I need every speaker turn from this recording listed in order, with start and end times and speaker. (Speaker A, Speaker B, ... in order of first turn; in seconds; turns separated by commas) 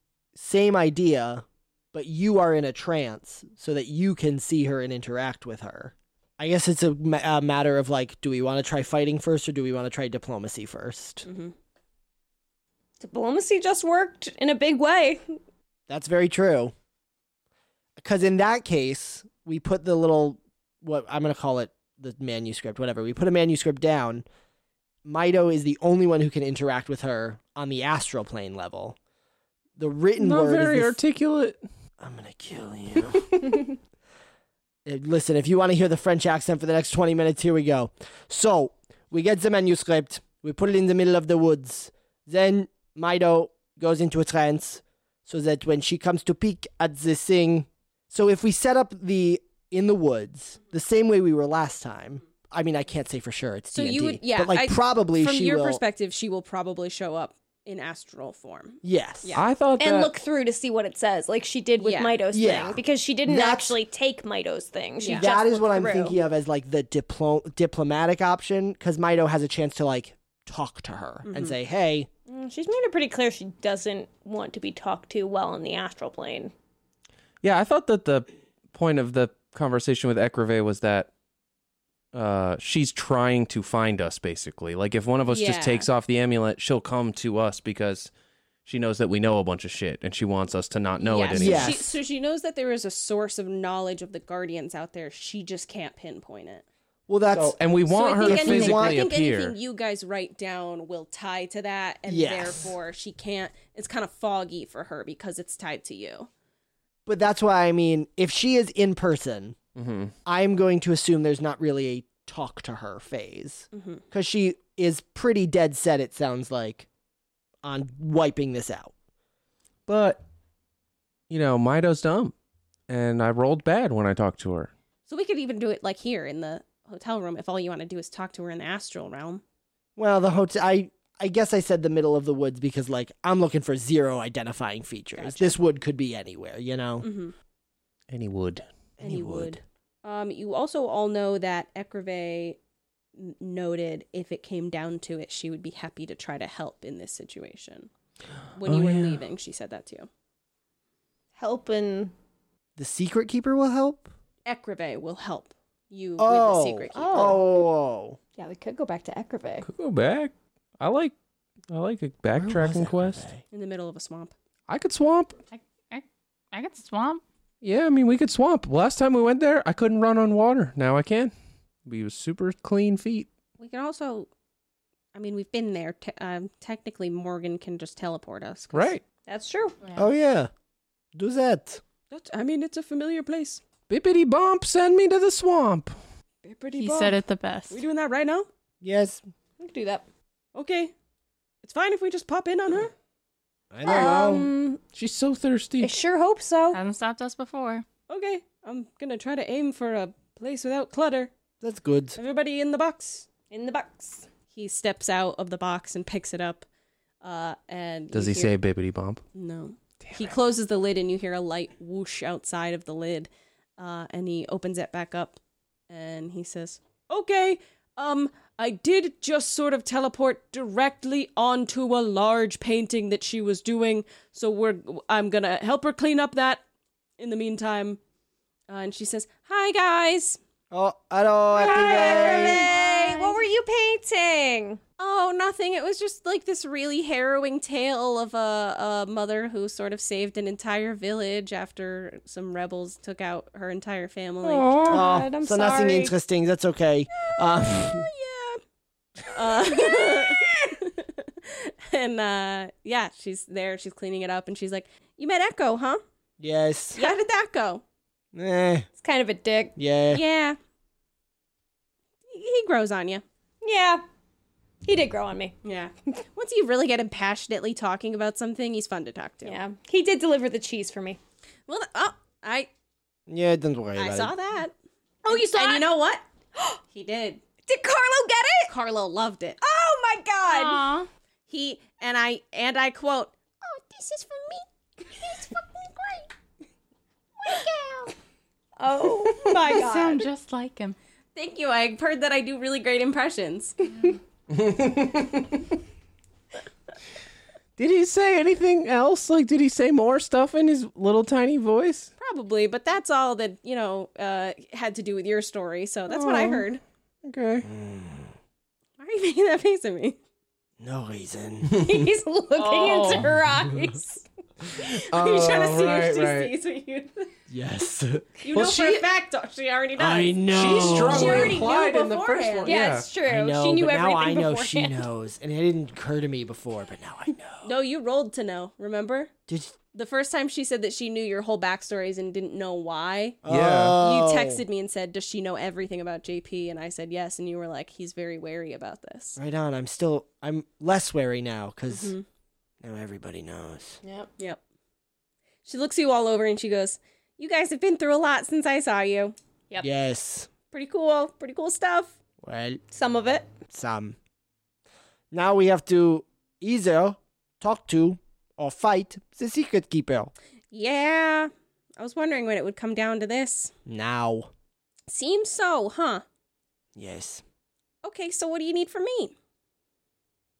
Speaker A: 0.3-11.3, Speaker B: 11.2-11.5, Speaker C: 13.0-15.2, Speaker A: 15.9-16.7, Speaker A: 18.0-24.2, Speaker A: 25.1-29.0, Speaker A: 29.8-31.0, Speaker D: 30.2-31.6, Speaker A: 32.0-33.7, Speaker A: 34.9-55.8, Speaker B: 53.7-59.4, Speaker A: 58.8-59.4, Speaker D: 59.4-60.1, Speaker C: 59.8-66.2, Speaker B: 61.8-62.2, Speaker A: 62.3-63.8, Speaker B: 65.0-65.3, Speaker A: 65.1-72.1, Speaker B: 71.2-71.6, Speaker C: 72.3-76.5, Speaker D: 77.4-81.1, Speaker D: 82.1-88.1, Speaker B: 85.3-85.9, Speaker D: 88.7-91.8, Speaker B: 91.0-96.7, Speaker A: 91.3-91.9, Speaker A: 97.1-97.6, Speaker D: 97.3-99.6, Speaker B: 97.9-106.3, Speaker A: 98.2-99.0, Speaker A: 102.1-102.7, Speaker A: 107.1-109.6, Speaker D: 109.8-110.1, Speaker A: 110.2-116.9, Speaker B: 113.7-114.0, Speaker A: 117.6-118.9, Speaker D: 119.9-120.2, Speaker D: 121.3-122.3, Speaker D: 122.9-124.7, Speaker B: 125.1-129.4, Speaker A: 130.0-137.1, Speaker B: 135.2-135.6, Speaker B: 137.0-137.3, Speaker D: 138.1-138.6, Speaker A: 139.0-139.6, Speaker B: 139.0-142.6, Speaker B: 143.2-147.9, Speaker B: 148.5-150.1, Speaker D: 148.7-149.2, Speaker C: 151.4-152.1, Speaker A: 152.8-154.1, Speaker B: 154.5-157.3, Speaker A: 156.2-158.2, Speaker C: 156.9-157.4, Speaker C: 158.4-159.7, Speaker D: 159.7-161.1, Speaker D: 161.7-163.2, Speaker A: 162.4-163.4, Speaker B: 163.5-164.3, Speaker D: 164.7-165.4, Speaker E: 165.5-167.2, Speaker D: 167.6-171.3, Speaker D: 171.9-173.3, Speaker B: 173.6-174.3, Speaker B: 175.1-179.0, Speaker D: 178.7-179.0, Speaker C: 179.3-179.8, Speaker A: 180.0-180.5, Speaker A: 181.2-181.8, Speaker B: 182.1-183.6, Speaker D: 183.9-186.0, Speaker B: 186.4-187.2, Speaker E: 186.8-187.8, Speaker B: 187.7-188.5, Speaker A: 188.8-189.2, Speaker C: 189.6-190.1, Speaker B: 190.6-190.9, Speaker B: 191.6-192.9, Speaker A: 193.7-194.5, Speaker C: 193.8-194.8, Speaker D: 194.9-195.9, Speaker C: 195.8-196.8, Speaker E: 196.7-197.8, Speaker B: 198.1-201.3, Speaker A: 201.6-202.2, Speaker B: 202.2-203.3, Speaker C: 203.5-204.3, Speaker B: 204.5-206.7, Speaker B: 207.2-208.6, Speaker D: 208.1-209.2, Speaker B: 209.3-226.6, Speaker D: 210.1-210.3, Speaker B: 227.2-228.0, Speaker B: 228.7-230.4, Speaker A: 230.7-232.7, Speaker B: 231.6-233.4, Speaker C: 231.6-234.8, Speaker B: 235.0-244.9, Speaker C: 244.4-246.1, Speaker A: 244.9-248.1, Speaker B: 247.9-248.6, Speaker B: 249.3-256.0, Speaker A: 256.4-257.0, Speaker B: 256.9-257.8, Speaker A: 258.3-258.9, Speaker C: 259.0-259.8, Speaker A: 259.8-260.2, Speaker B: 260.1-260.6, Speaker B: 262.3-263.2, Speaker C: 263.6-264.0, Speaker C: 264.8-265.6, Speaker B: 265.6-269.6, Speaker C: 269.4-271.2, Speaker B: 271.7-272.7, Speaker A: 273.3-274.3, Speaker B: 274.0-274.7, Speaker C: 275.2-275.9, Speaker B: 275.3-276.2, Speaker B: 276.9-277.4, Speaker C: 277.7-278.7, Speaker B: 278.7-279.7, Speaker C: 279.6-280.8, Speaker B: 280.4-280.9, Speaker E: 280.5-281.1, Speaker B: 281.5-286.3, Speaker B: 287.4-288.1, Speaker C: 288.8-290.3, Speaker B: 289.4-290.3, Speaker E: 289.5-291.0, Speaker B: 291.4-294.1, Speaker D: 294.5-295.7, Speaker D: 297.8-302.1, Speaker B: 302.2-306.8, Speaker D: 306.1-306.7, Speaker D: 307.2-307.7, Speaker A: 307.6-308.4, Speaker B: 309.0-310.2, Speaker A: 310.8-312.0, Speaker C: 311.8-314.2, Speaker E: 312.6-313.3, Speaker A: 313.5-313.9, Speaker D: 314.8-316.5, Speaker B: 315.0-317.3, Speaker A: 317.5-318.4, Speaker B: 318.4-322.8, Speaker D: 318.5-319.1, Speaker A: 320.0-321.6, Speaker D: 320.5-323.1, Speaker C: 321.1-321.5, Speaker C: 322.7-325.0, Speaker A: 323.2-327.7, Speaker B: 327.6-329.3, Speaker A: 329.5-329.8, Speaker B: 329.9-333.4, Speaker A: 333.4-334.6, Speaker D: 333.5-334.0, Speaker B: 334.0-339.4, Speaker A: 339.4-342.1, Speaker B: 341.9-342.2, Speaker A: 342.8-344.0, Speaker C: 344.0-344.3, Speaker B: 345.6-349.4, Speaker A: 349.8-350.5, Speaker B: 350.7-352.1, Speaker A: 352.4-352.8, Speaker C: 352.9-353.5, Speaker A: 353.7-354.2, Speaker A: 355.3-360.3, Speaker B: 360.7-363.7, Speaker A: 363.9-364.5, Speaker B: 365.1-366.2, Speaker A: 366.9-367.4, Speaker B: 368.0-369.4